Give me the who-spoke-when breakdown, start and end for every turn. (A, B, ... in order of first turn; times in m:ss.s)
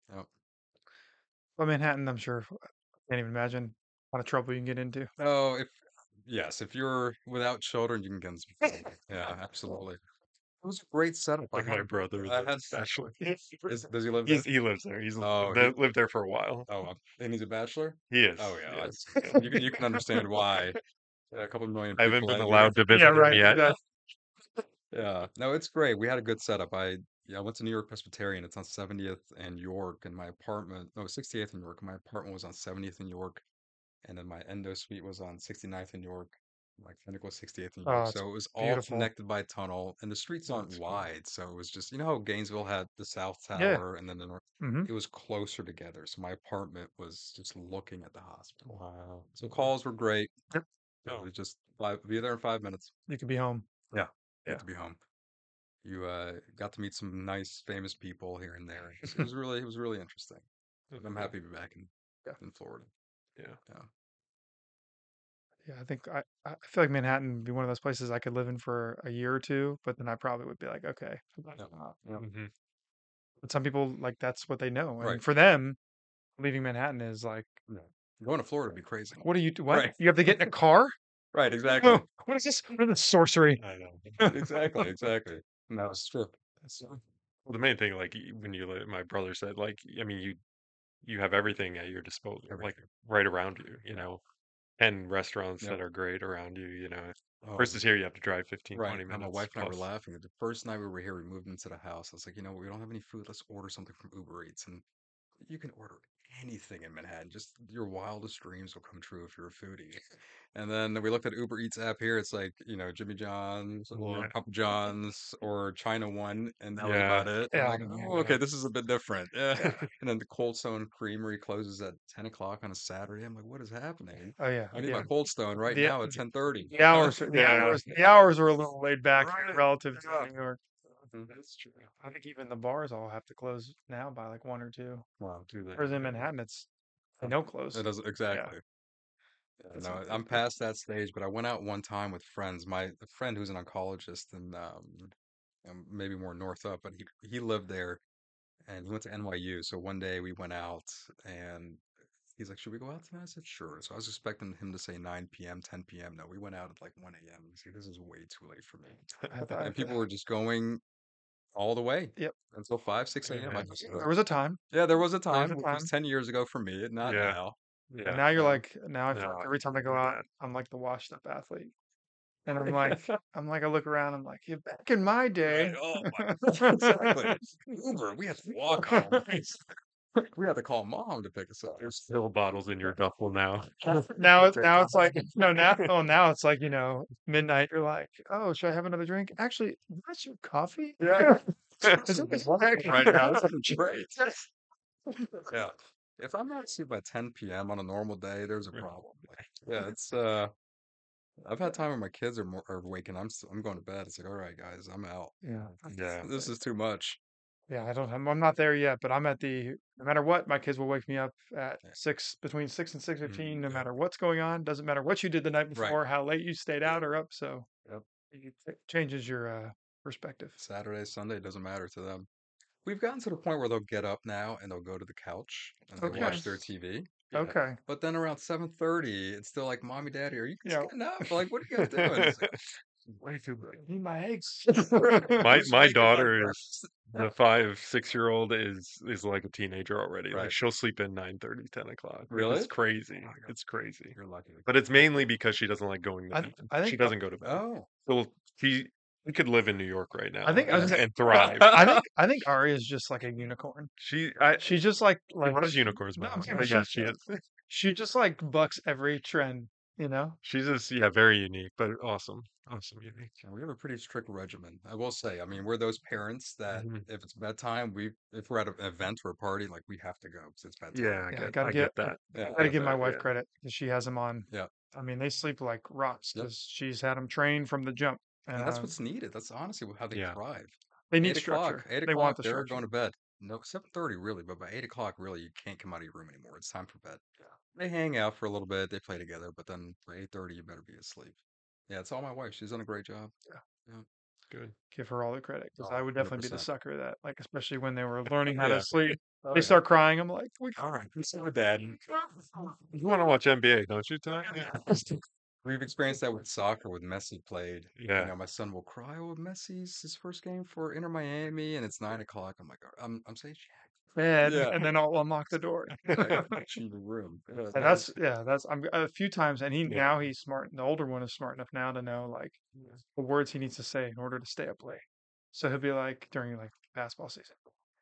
0:01.6-0:05.1 A
0:05.2-0:10.0 B
0:10.6-0:12.8 B
0:11.5-0:13.2 C
0:13.2-0:13.7 A
0:13.7-0:14.5 B
0:14.2-0:16.7 C
0:15.2-0:15.8 B
0:16.7-0:20.8 B
0:18.1-0:19.5 C
0:19.2-0:20.0 A
0:21.3-0:23.6 B
0:22.0-0:23.8 C
0:22.9-0:23.8 A
0:24.9-0:33.4 B
0:34.0-0:48.8 B
0:37.8-0:39.1 A
0:40.6-0:41.0 C
0:43.5-0:43.8 A
0:44.6-0:44.9 A
0:48.6-0:49.4 C
0:49.3-0:50.3 B
0:51.0-0:52.9 B
0:53.1-0:53.6 A
0:53.9-0:55.0 B
0:55.8-1:02.9 B
1:00.9-1:01.3 C
1:05.6-1:12.0 A
1:11.6-1:12.2 B
1:12.2-1:12.5 C
1:13.4-1:15.8 A
1:16.4-1:17.6 A
1:17.7-1:20.5 B
1:19.2-1:20.9 A
1:21.3-1:22.0 B
1:21.8-1:23.6 A
1:23.6-1:24.2 C
1:24.2-1:24.9 A
1:24.3-1:26.4 B
1:27.4-1:30.4 C
1:31.0-1:34.2 C
1:32.5-1:32.8 B
1:34.8-1:39.9 C
1:37.4-1:37.8 B
1:38.7-1:44.8 B
1:45.4-1:50.0 B
1:50.5-2:07.7 B
1:53.9-1:54.3 C
1:56.8-1:57.3 C
1:57.5-1:58.2 A
1:58.1-1:58.4 C
1:59.6-1:59.9 C
2:04.4-2:05.1 A
2:05.6-2:06.1 A
2:06.7-2:10.6 A
2:06.9-2:08.0 C
2:09.2-2:10.3 C
2:11.0-2:11.9 C
2:12.0-2:15.1 A
2:15.2-2:15.5 B
2:15.5-2:16.2 C
2:15.7-2:16.7 A
2:17.2-2:18.5 A
2:17.7-2:18.6 B
2:19.6-2:25.1 B
2:19.7-2:20.4 A
2:25.6-2:28.0 B
2:28.6-2:39.0 B
2:39.3-2:40.0 A
2:39.6-2:40.8 B
2:41.5-2:44.1 B
2:43.2-2:44.0 C
2:43.8-2:44.6 A
2:44.7-2:47.6 B
2:45.3-2:45.9 A
2:47.0-2:47.4 C
2:47.9-2:48.4 C
2:48.0-2:51.7 A
2:48.3-2:48.6 B
2:49.1-2:50.2 C
2:52.4-2:57.4 A
2:52.9-2:53.1 C
2:55.4-2:59.3 B
2:58.8-2:59.3 A
3:00.1-3:01.9 B
3:01.8-3:05.9 C
3:04.1-3:11.4 A
3:11.0-3:12.4 C
3:12.0-3:13.4 A
3:12.2-3:14.2 B
3:13.0-3:13.4 C
3:15.5-3:20.5 B
3:21.4-3:25.4 B
3:25.4-3:26.5 A
3:25.8-3:26.3 C
3:26.2-3:27.2 B
3:27.7-3:37.7 A
3:33.3-3:33.8 B
3:35.7-3:36.0 B
3:38.3-3:40.6 A
3:40.6-3:42.3 B
3:42.8-3:52.5 B
3:46.0-3:46.6 A
3:46.0-3:46.6 C
3:47.3-3:47.8 A
3:50.6-3:50.9 A
3:51.7-3:53.8 C
3:53.8-3:55.6 A
3:55.0-3:57.3 B
3:55.4-4:11.8 C
4:00.3-4:00.6 B
4:02.3-4:02.7 B
4:04.2-4:05.0 B
4:06.3-4:07.2 A
4:07.4-4:07.9 B
4:10.4-4:13.9 A
4:10.7-4:12.0 B
4:14.0-4:14.8 C
4:14.6-4:20.4 A
4:15.4-4:17.4 C
4:20.4-4:23.3 C
4:23.4-4:31.2 B
4:26.7-4:27.0 C
4:30.9-4:33.3 C
4:31.3-4:39.0 A
4:32.3-4:32.8 B
4:38.5-4:47.2 B
4:40.1-4:40.4 C
4:41.1-4:42.8 A
4:47.7-4:53.3 B
4:54.9-5:00.8 A
4:56.2-4:56.7 B
4:58.5-4:59.8 C
5:00.8-5:05.2 C
5:05.6-5:14.9 B
5:08.0-5:08.3 C
5:14.1-5:16.4 A
5:16.0-5:16.5 C
5:16.1-5:18.1 B
5:17.7-5:18.0 C
5:17.7-5:22.6 A
5:19.9-5:20.1 C
5:23.1-5:27.6 A